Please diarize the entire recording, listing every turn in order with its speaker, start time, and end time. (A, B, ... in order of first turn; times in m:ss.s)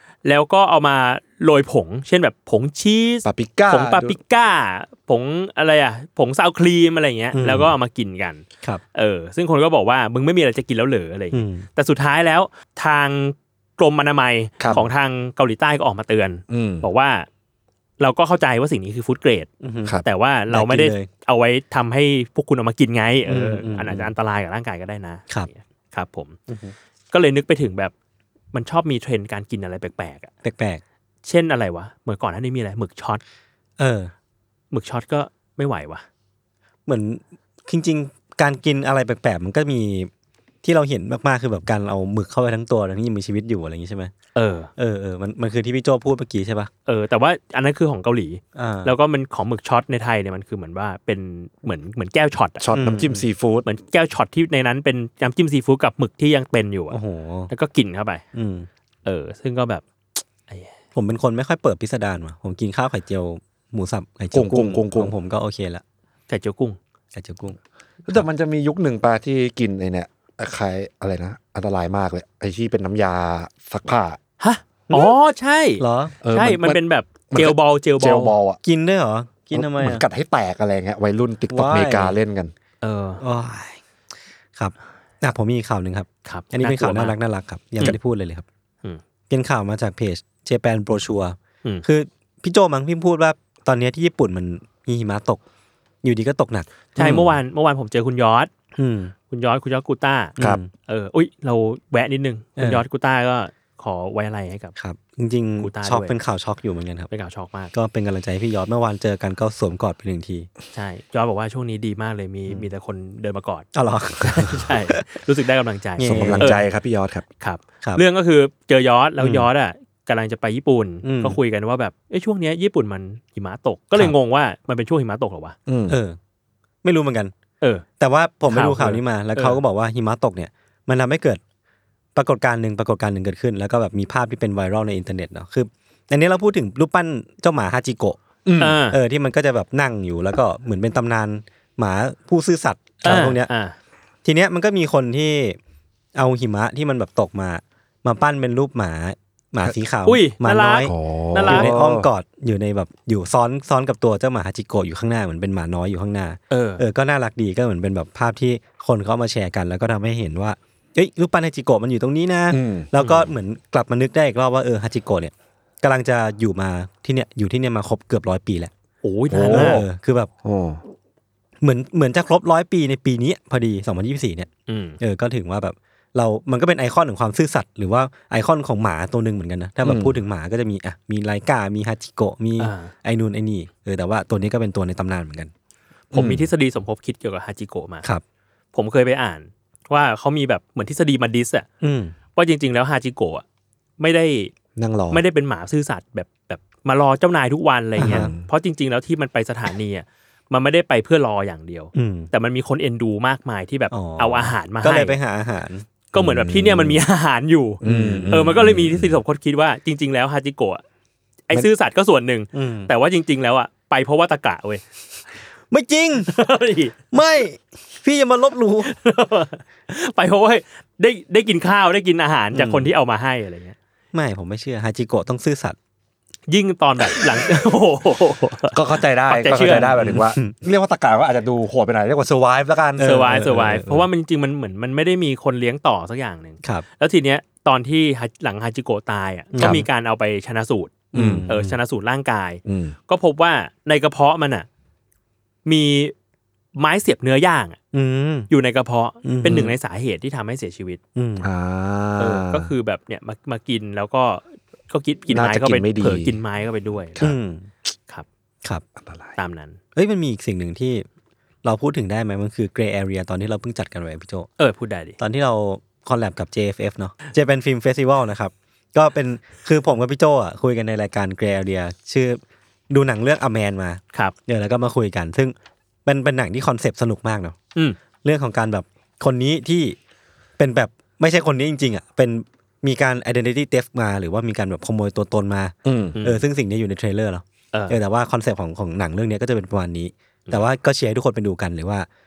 0:00.2-0:17.3 A
0:03.2-0:04.2 B
0:07.3-0:07.7 C
0:11.3-0:11.6 C
0:16.5-0:16.8 B
0:18.0-0:19.5 A
0:19.6-0:21.1 C
0:20.0-0:26.4 A
0:23.3-0:24.1 C
0:26.5-0:26.7 C
0:27.1-0:27.9 A
0:28.5-0:30.3 A
0:30.4-0:30.8 C
0:31.2-0:33.2 A
0:33.8-0:34.1 C
0:34.7-0:36.0 A
0:36.8-0:40.1 C
0:40.6-0:44.1 C
0:44.3-0:44.7 A
0:44.8-0:46.7 C
0:46.9-0:52.7 A
0:48.5-0:48.9 C
0:52.6-0:53.7 B
0:52.7-0:53.2 C
0:53.6-0:57.0 A
0:56.9-0:57.5 C
0:57.5-0:58.2 A
0:58.3-0:58.7 C
0:59.0-0:59.8 A
1:00.9-1:05.8 C
1:04.3-1:05.1 B
1:06.3-1:06.8 A
1:07.1-1:07.6 C
1:08.1-1:14.2 B
1:14.4-1:18.3 A
1:15.8-1:16.2 C
1:16.2-1:18.6 B
1:18.6-1:20.0 C
1:19.5-1:22.5 B
1:21.5-1:22.2 C
1:22.8-1:23.2 A
1:23.2-1:23.8 C
1:24.6-1:28.4 C
1:26.2-1:27.2 A
1:29.3-1:35.4 C
1:36.0-1:37.0 C
1:37.0-1:38.5 A
1:37.0-1:37.3 B
1:38.8-1:39.1 C
1:39.3-1:44.7 A
1:40.4-1:40.7 C
1:42.6-1:42.8 C
1:44.8-1:47.1 C
1:45.6-1:46.1 A
1:47.1-1:47.7 A
1:47.7-1:50.5 C
1:50.7-1:53.7 A
1:53.7-1:55.0 C
1:54.3-1:56.6 A
1:56.0-1:56.5 C
1:56.0-1:57.2 B
1:57.4-2:05.6 A
1:59.2-1:59.5 C
2:01.0-2:01.4 C
2:05.7-2:06.0 B
2:05.9-2:06.2 C
2:06.8-2:07.3 C
2:08.0-2:11.4 C
2:08.5-2:09.6 A
2:12.1-2:18.2 C
2:18.4-2:18.9 B
2:18.6-2:19.0 A
2:18.9-2:23.5 C
2:23.0-2:23.8 A
2:24.2-2:25.6 C
2:26.1-2:30.9 C
2:30.0-2:31.7 A
2:30.8-2:32.1 B
2:31.4-2:48.7 C
2:36.5-2:36.8 A
2:42.5-2:42.9 B
2:43.0-2:43.3 A
2:49.0-2:49.8 A
2:49.3-2:49.8 B
2:49.5-2:50.3 C
2:50.4-2:50.8 B
2:51.6-2:54.5 C
2:54.7-2:55.0 A
2:55.0-3:05.5 C
2:59.8-3:00.2 B
3:02.6-3:02.9 A
3:06.1-3:08.0 A
3:06.1-3:06.5 B
3:08.7-3:11.6 A
3:11.8-3:12.1 C
3:12.4-3:13.4 A
3:14.0-3:14.5 A
3:14.8-3:15.2 B
3:15.1-3:25.2 A
3:18.0-3:18.4 B
3:18.0-3:18.3 C
3:21.9-3:22.3 C
3:23.9-3:25.8 C
3:26.1-3:30.8 A
3:26.1-3:27.0 B
3:27.8-3:29.2 B
3:27.8-3:28.3 C
3:31.5-3:34.8 A
3:32.5-3:32.9 C
3:35.7-3:36.3 C
3:36.3-3:37.0 A
3:37.1-3:38.9 C
3:38.9-3:43.8 A
3:42.5-3:42.9 C
3:44.1-3:45.8 C
3:46.5-3:50.0 A
3:48.7-3:54.0 B
3:50.0-3:50.5 C
3:53.0-3:53.8 C
3:53.0-4:04.6 A
3:59.5-3:59.8 C
3:59.6-3:59.8 B
4:01.1-4:01.5 B
4:01.1-4:01.8 C
4:02.6-4:03.0 B
4:05.6-4:06.1 A
4:06.8-4:07.8 A
4:07.9-4:08.5 C
4:08.5-4:11.0 A
4:09.2-4:09.7 C
4:11.1-4:11.5 C
4:11.4-4:12.7 B
4:12.2-4:17.2 A
4:15.3-4:16.4 B
4:17.2-4:17.7 C
4:19.0-4:19.4 B
4:19.4-4:19.8 A
4:19.9-4:21.0 C
4:21.6-4:24.5 C
4:24.6-4:25.2 A
4:25.2-4:35.5 C
4:36.0-4:37.6 C
4:38.2-4:40.0 C
4:40.6-4:52.1 C
4:45.8-4:46.2 B
4:46.2-4:46.4 A
4:47.7-4:48.0 A